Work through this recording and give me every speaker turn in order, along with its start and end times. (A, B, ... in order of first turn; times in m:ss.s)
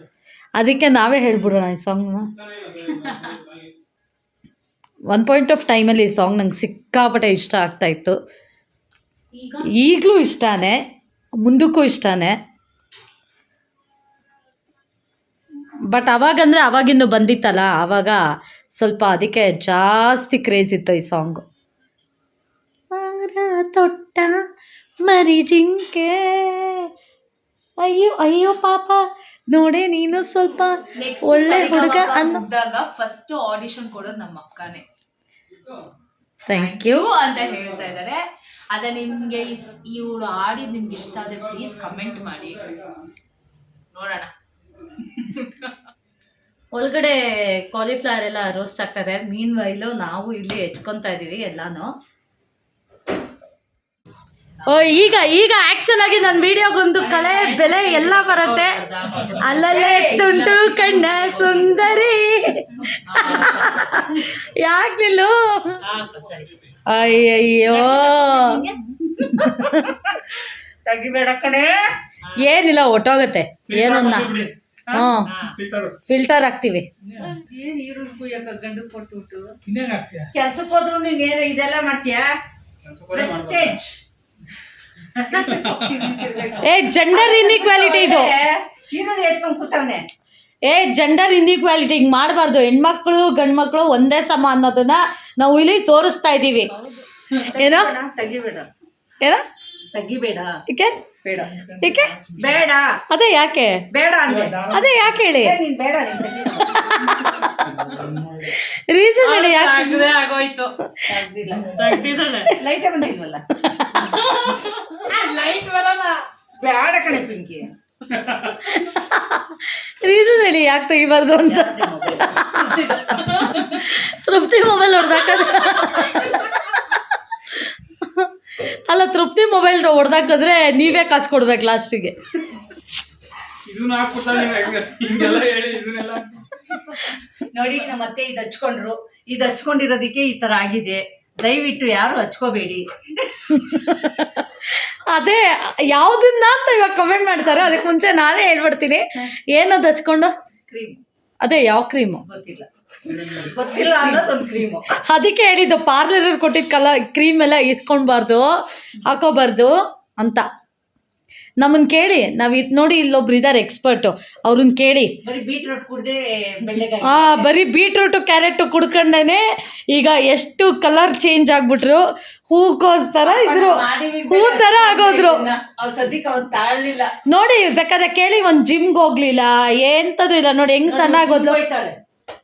0:00.6-0:02.3 A
0:02.4-0:03.7 B
0:05.1-0:08.2 A
0:09.3-0:09.7 C
0:09.7-0:10.8 A
0:11.4-0:12.4 A
0:15.9-0:18.2 A
0:18.8-0:21.4 A
0:22.9-0:24.3 A
0:25.0-0:26.9 A
0:27.8-0:32.4 A
0:30.9-0:34.8 C
0:36.5-0:37.0 A
0:36.5-0:42.9 C
0:43.9-0:44.3 C
0:45.1-0:45.7 C
0:46.7-0:51.9 A
0:54.6-1:05.8 A
0:57.1-0:58.4 C
0:59.1-1:01.6 C
1:03.2-1:03.7 D
1:06.0-1:06.4 D
1:06.8-1:08.6 A
1:08.2-1:08.7 C
1:09.2-1:10.0 A
1:09.4-1:09.9 D
1:10.8-1:11.9 D
1:12.3-1:14.3 A
1:13.7-1:14.5 B
1:14.9-1:15.3 A
1:15.0-1:15.5 D
1:15.4-1:15.9 B
1:16.1-1:16.9 A
1:17.2-1:19.5 D
1:17.2-1:17.6 C
1:20.3-1:22.3 D
1:22.8-1:23.8 B
1:23.1-1:24.0 D
1:25.2-1:30.1 D
1:26.6-1:28.3 A
1:30.6-1:36.7 A
1:36.7-1:37.2 C
1:37.4-1:38.7 D
1:37.5-1:37.9 A
1:39.9-1:40.6 D
1:40.7-1:41.0 A
1:41.2-1:41.7 D
1:41.7-1:42.2 A
1:42.3-1:43.0 D
1:43.1-1:43.8 A
1:43.9-1:44.8 D
1:44.7-1:45.6 A
1:45.3-1:46.8 D
1:46.6-1:47.6 A
1:48.4-1:50.0 A
1:49.2-1:50.7 C
1:49.9-1:50.3 D
1:51.0-1:53.4 D
1:51.7-1:52.5 C
1:53.6-1:54.1 A
1:54.0-1:56.2 C
1:56.6-1:57.7 D
1:58.1-1:58.4 B
1:58.4-2:07.0 A
2:01.4-2:02.4 D
2:07.5-2:12.2 A
2:13.6-2:16.7 B
2:17.5-2:23.9 D
2:23.6-2:30.3 A
2:30.7-2:31.0 D
2:31.4-2:32.2 A
2:32.3-2:32.7 D
2:33.0-2:33.6 B
2:33.4-2:34.8 D
2:34.9-2:40.4 A
2:41.6-2:45.2 A
2:45.2-2:47.5 D
2:47.0-2:55.4 A
2:53.2-2:57.2 D
2:57.2-3:01.6 A
3:00.9-3:02.0 D